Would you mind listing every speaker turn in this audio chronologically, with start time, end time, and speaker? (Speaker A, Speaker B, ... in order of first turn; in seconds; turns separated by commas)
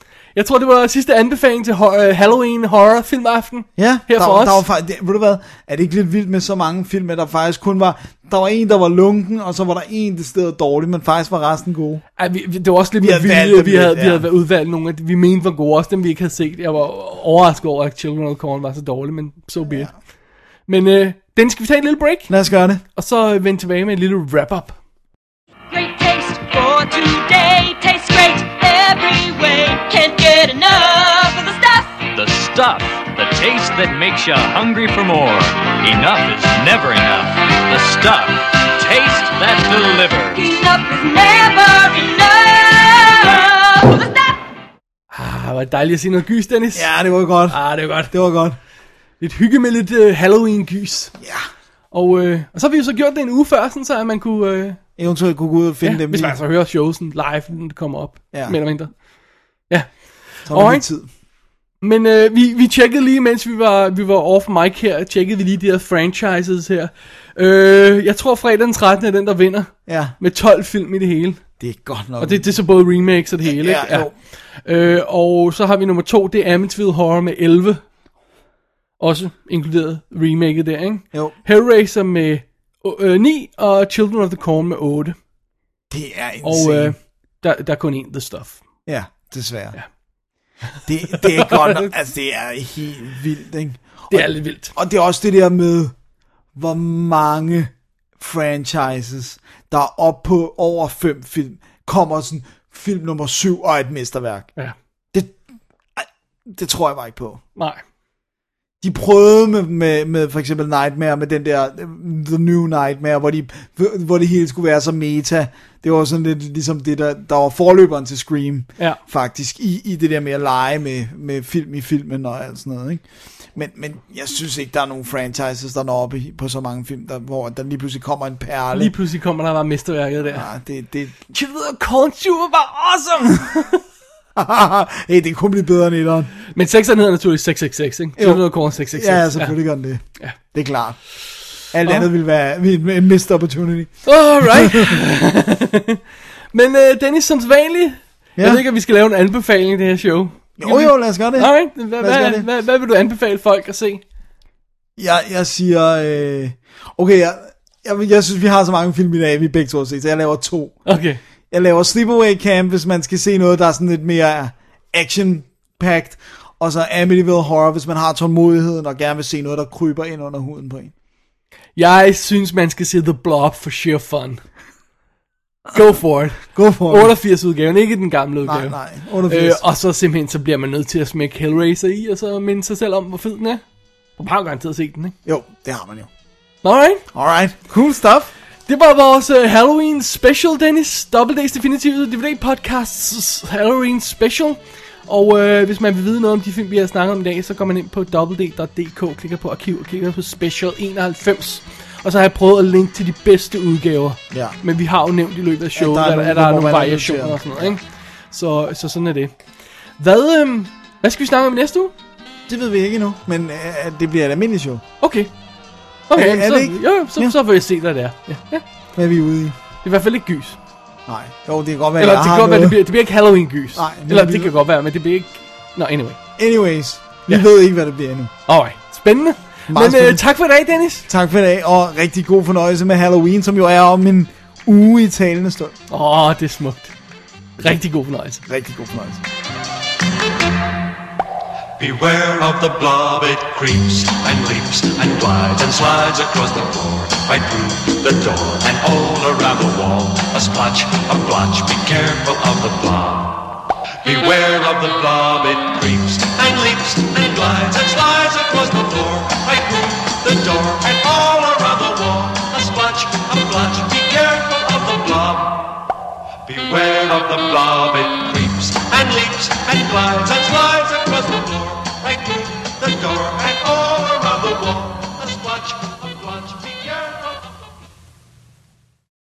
Speaker A: 0.3-4.6, Speaker B: 3.8-12.0, Speaker A: 12.2-19.9, Speaker B: 13.0-14.3, Speaker B: 19.7-19.9, Speaker A: 20.7-22.3, Speaker B: 22.3-22.8, Speaker A: 22.9-24.8, Speaker C: 25.7-32.0, Speaker D: 32.1-40.4, Speaker C: 40.3-44.4, Speaker A: 45.1-46.9, Speaker B: 46.8-48.6, Speaker A: 47.5-48.1, Speaker A: 49.2-51.1, Speaker B: 51.2-51.5, Speaker A: 51.9-54.8, Speaker B: 55.0-56.4, Speaker A: 55.8-58.9, Speaker A: 59.7-60.9, Speaker B: 60.5-61.1, Speaker A: 61.8-71.4, Speaker B: 69.9-70.2, Speaker B: 71.6-72.5, Speaker A: 72.2-77.8, Speaker B: 73.4-74.1, Speaker A: 79.0-85.2, Speaker B: 85.9-87.0, Speaker A: 86.4-88.6, Speaker B: 88.9-89.8, Speaker B: 90.9-95.9, Speaker A: 91.1-91.9, Speaker A: 94.1-94.7, Speaker B: 96.6-104.5, Speaker B: 106.0-107.4, Speaker A: 107.6-107.8, Speaker B: 108.8-123.0, Speaker B: 123.5-128.9, Speaker A: 128.7-130.5, Speaker B: 130.3-131.2, Speaker A: 131.3-133.8, Speaker B: 134.4-136.3, Speaker A: 136.5-139.6, Speaker B: 138.2-141.0, Speaker B: 141.7-145.0, Speaker A: 144.1-146.0, Speaker A: 146.5-154.0, Speaker B: 148.4-148.6, Speaker B: 150.6-152.5, Speaker B: 155.0-161.0, Speaker A: 160.9-161.2, Speaker B: 161.5-170.9, Speaker A: 171.8-174.4, Speaker A: 175.7-183.6, Speaker B: 176.5-177.2, Speaker B: 178.4-179.6, Speaker A: 184.2-185.2, Speaker B: 185.3-186.1, Speaker A: 186.6-187.0, Speaker B: 187.1-188.3, Speaker A: 188.7-207.8, Speaker B: 204.3-204.6, Speaker B: 205.8-207.8, Speaker A: 208.3-209.3, Speaker A: 210.0-211.9, Speaker B: 212.5-214.8, Speaker A: 215.0-215.3, Speaker A: 216.1-218.7, Speaker B: 216.1-217.3, Speaker B: 218.9-219.6, Speaker A: 219.8-220.6, Speaker B: 221.1-222.8, Speaker A: 222.0-226.2, Speaker B: 223.8-224.5, Speaker B: 226.4-228.3, Speaker A: 228.5-231.1, Speaker B: 229.7-230.2, Speaker B: 231.1-235.8, Speaker A: 235.9-236.9, Speaker A: 237.6-238.4, Speaker B: 238.4-239.2, Speaker E: 241.8-265.8, Speaker E: 266.4-277.5